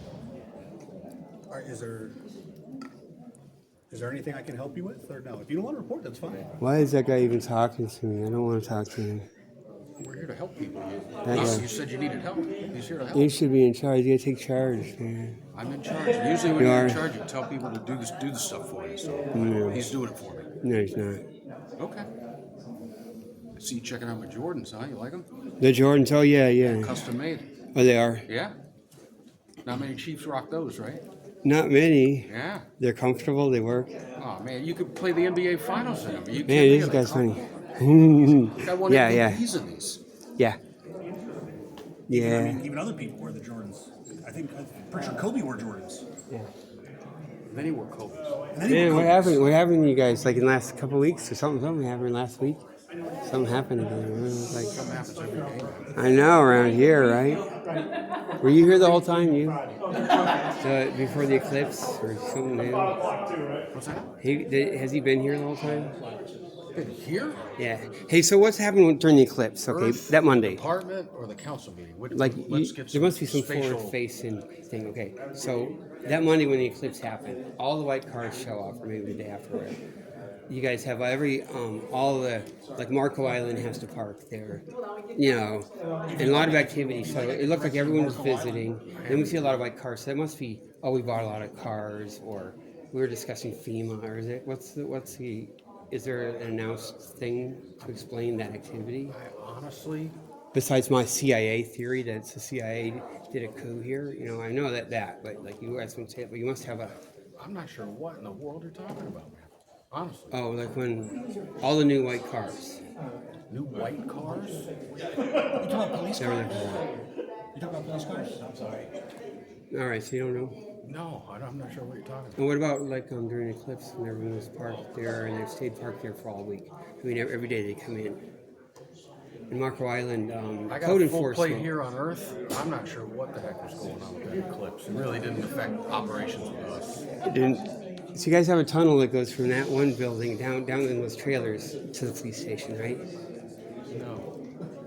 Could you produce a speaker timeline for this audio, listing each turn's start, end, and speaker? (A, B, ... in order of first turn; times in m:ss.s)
0:01.5-0:02.2 A
0:03.9-0:06.5 A
0:06.6-0:09.3 B
0:10.0-0:13.3 C
0:11.2-0:11.7 B
0:13.1-0:15.4 B
0:15.5-0:20.5 C
0:16.6-0:17.1 B
0:19.3-0:20.0 B
0:20.6-0:21.2 B
0:21.8-0:22.1 C
0:23.6-0:25.3 C
0:25.6-0:26.9 B
0:26.6-0:27.5 C
0:27.8-0:28.2 B
0:28.3-0:28.6 C
0:29.6-0:31.0 C
0:31.4-0:33.9 B
0:32.3-0:32.7 C
0:34.2-0:37.4 C
0:36.4-0:39.4 B
0:38.4-0:40.0 C
0:42.1-0:42.7 B
0:42.1-0:46.0 A
0:47.5-0:48.5 C
0:48.5-0:49.5 A
0:48.6-0:52.6 B
0:53.2-0:54.8 B
0:54.7-0:56.0 C
0:56.0-0:57.5 B
0:58.4-0:59.7 B
1:00.6-1:03.0 B
1:03.7-1:04.2 C
1:04.2-1:06.0 B
1:06.8-1:07.4 C
1:07.6-1:10.6 B
1:09.7-1:14.0 C
1:12.1-1:19.8 B
1:20.5-1:39.2 B
1:26.1-1:28.3 A
1:27.2-1:29.6 C
1:39.1-1:40.2 C
1:40.5-1:47.0 B
1:47.4-1:50.4 C
1:50.3-1:52.8 B
1:53.5-1:54.6 C
1:55.2-1:56.8 A
1:56.2-1:56.9 B
1:57.6-1:58.9 A
1:59.7-2:00.6 B
2:00.8-2:02.4 C
2:02.4-2:08.2 B
2:09.5-2:11.7 B
2:10.7-2:17.1 C
2:17.2-2:23.0 B
2:23.9-2:24.3 C